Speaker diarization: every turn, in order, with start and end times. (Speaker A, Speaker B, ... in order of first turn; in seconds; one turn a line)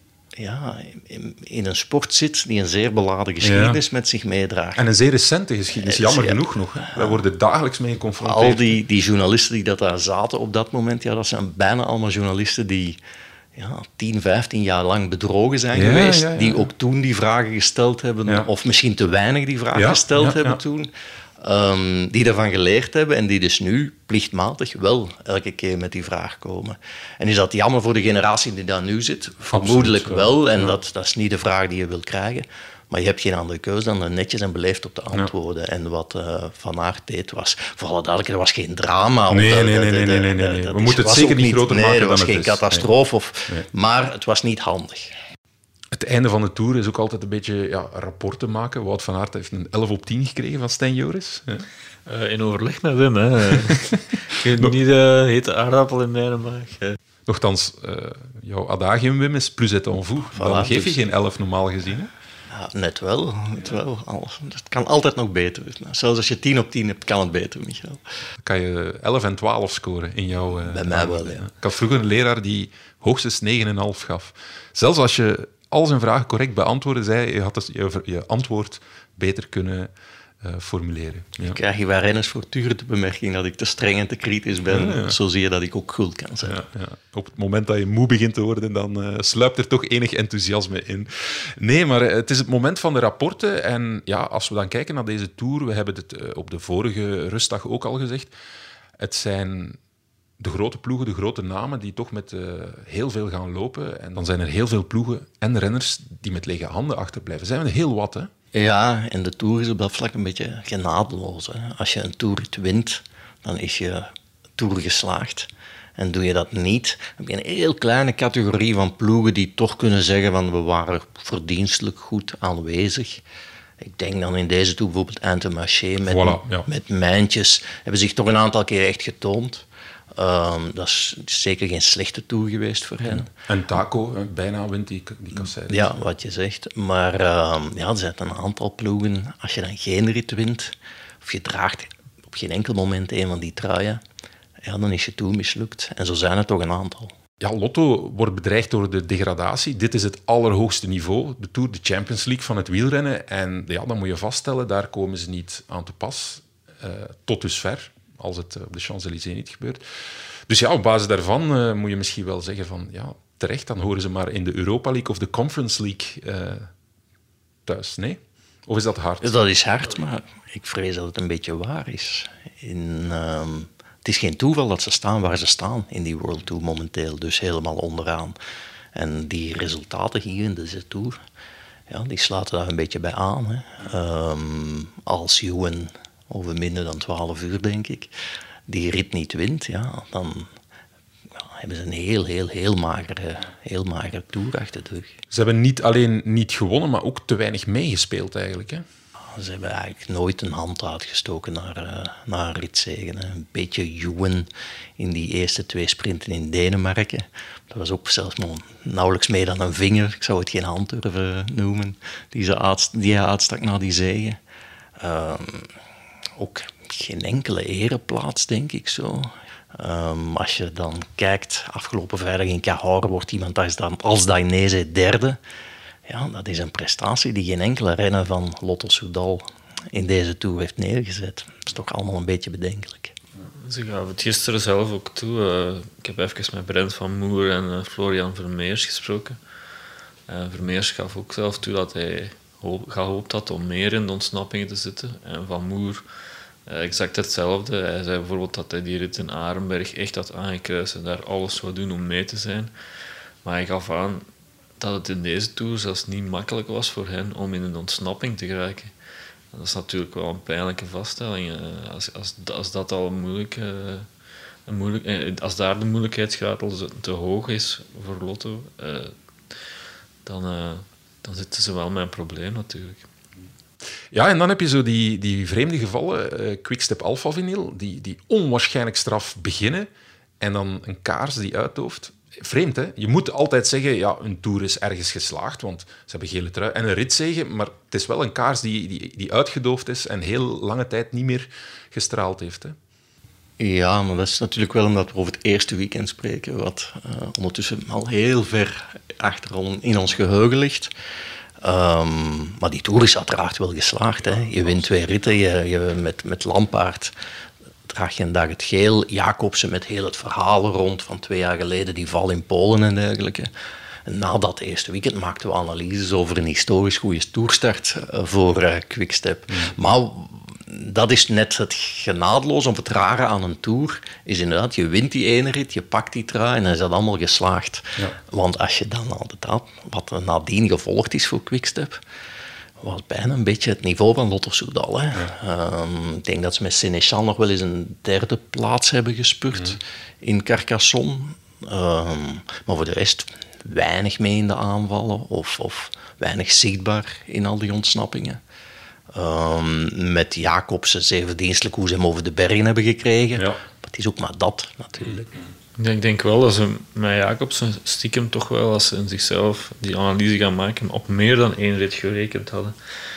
Speaker A: 0.4-4.9
Speaker B: 3.4-3.8
Speaker B: 4.8-8.7
Speaker A: 5.8-7.2
Speaker A: 8.2-13.0
Speaker A: 13.6-45.1
Speaker B: 15.8-16.7
Speaker B: 19.8-20.6
Speaker B: 29.5-30.7
Speaker B: 39.3-42.9
Speaker B: 45.9-51.7
Speaker C: 52.1-57.0
Speaker B: 57.3-62.1
Speaker A: 60.3-61.0
Speaker A: 62.5-68.0
Speaker B: 68.4-79.9
Speaker A: 70.6-71.5
Speaker B: 80.4-81.6
Speaker A: 81.5-86.6
Speaker B: 84.7-85.2
Speaker B: 86.4-98.3
Speaker B: 99.0-99.8
Speaker B: 100.4-108.3
Speaker A: 108.5-123.2
Speaker A: 123.8-133.3
Speaker B: 126.1-126.7
Speaker B: 133.5-135.9
Speaker A: 135.4-144.0
Speaker A: 144.6-147.1
Speaker B: 147.4-159.8
Speaker B: 160.5-166.7
Speaker B: 167.7-169.3
Speaker A: 169.2-178.3
Speaker A: 178.9-181.2
Speaker A: 181.9-188.1
Speaker A: 188.7-190.5
Speaker A: 191.4-195.2
Speaker B: 195.3-198.8
Speaker A: 199.3-214.4
Speaker A: 215.0-215.7
Speaker A: 216.4-225.4
Speaker A: 226.1-233.1
Speaker C: 233.6-239.4
Speaker C: 240.3-246.0
Speaker C: 246.7-252.7
Speaker C: 253.4-254.3
Speaker C: 254.8-258.9
Speaker C: 259.5-264.1
Speaker C: 264.7-269.1
Speaker C: 270.2-273.1
Speaker B: 274.1-279.9
Speaker B: 280.4-292.8
Speaker A: 293.6-300.9
Speaker A: 301.6-307.1
Speaker A: 307.9-313.5
Speaker A: 314.1-332.0
Speaker A: 332.8-348.4
Speaker A: 349.1-355.4
Speaker C: 355.8-362.8